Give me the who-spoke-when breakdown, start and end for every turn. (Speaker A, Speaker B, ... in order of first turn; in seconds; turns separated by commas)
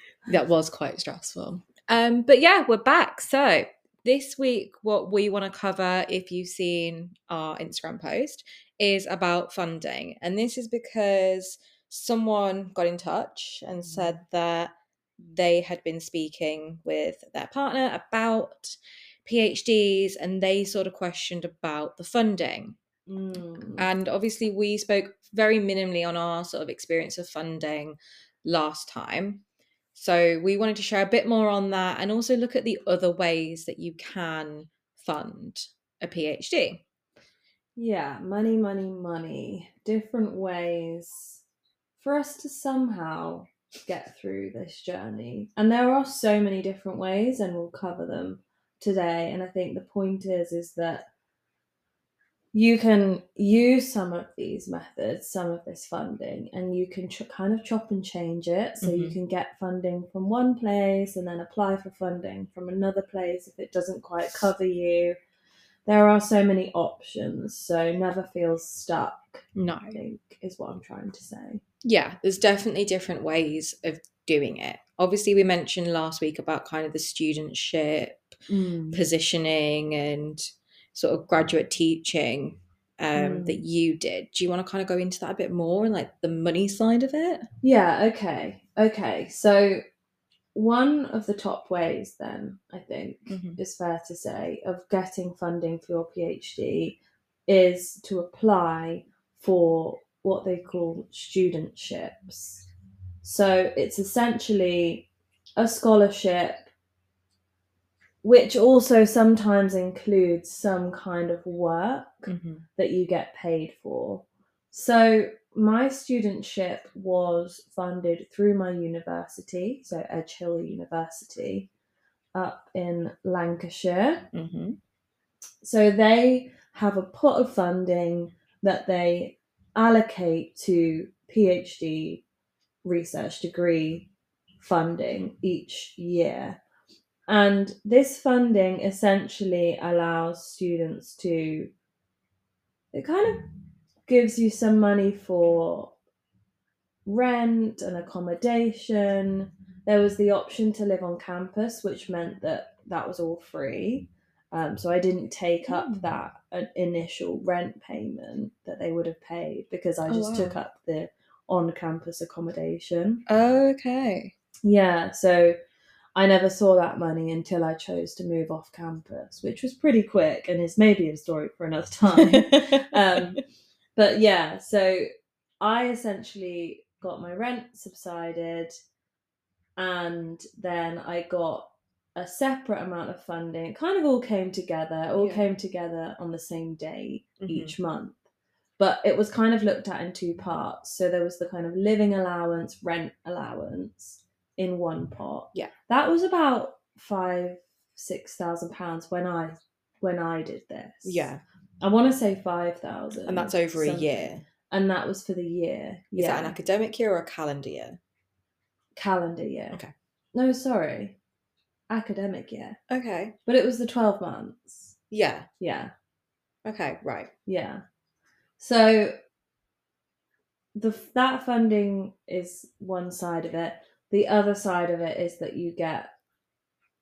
Speaker A: 0.3-22.8, Speaker B: 13.9-14.2, Speaker B: 23.1-23.9, Speaker A: 23.8-29.4, Speaker A: 29.9-36.8, Speaker B: 37.8-41.4, Speaker B: 42.0-51.1, Speaker B: 52.5-65.2, Speaker A: 58.8-59.1, Speaker B: 65.9-71.6, Speaker A: 69.6-70.0, Speaker A: 71.8-78.2, Speaker B: 78.5-79.0, Speaker A: 78.9-87.5, Speaker B: 83.2-83.6, Speaker B: 87.6-89.8, Speaker B: 90.5-102.7, Speaker A: 93.3-93.6, Speaker B: 103.2-106.7, Speaker B: 108.2-121.7, Speaker A: 112.3-112.6, Speaker B: 122.3-124.3, Speaker A: 124.3-124.8, Speaker B: 125.6-132.2, Speaker B: 132.8-134.1, Speaker B: 134.6-136.6, Speaker B: 137.3-141.7, Speaker B: 142.9-143.4, Speaker B: 144.1-145.9, Speaker B: 147.1-163.2, Speaker A: 155.7-156.1, Speaker A: 160.1-160.6, Speaker A: 163.3-164.3, Speaker B: 164.6-165.6, Speaker B: 166.2-173.4, Speaker A: 172.1-173.4, Speaker B: 174.0-175.1, Speaker B: 175.6-178.7, Speaker B: 179.8-188.2, Speaker A: 185.2-185.4, Speaker A: 187.4-187.8, Speaker B: 188.8-206.6, Speaker A: 201.1-201.4, Speaker A: 203.3-204.4, Speaker A: 206.2-208.0, Speaker B: 209.0-209.8, Speaker B: 210.3-211.2, Speaker B: 211.9-212.8, Speaker A: 212.9-213.3, Speaker B: 213.5-214.9, Speaker A: 215.1-215.5, Speaker B: 215.6-215.9, Speaker A: 216.7-217.3, Speaker B: 217.5-217.8, Speaker B: 218.6-219.1, Speaker B: 220.8-226.1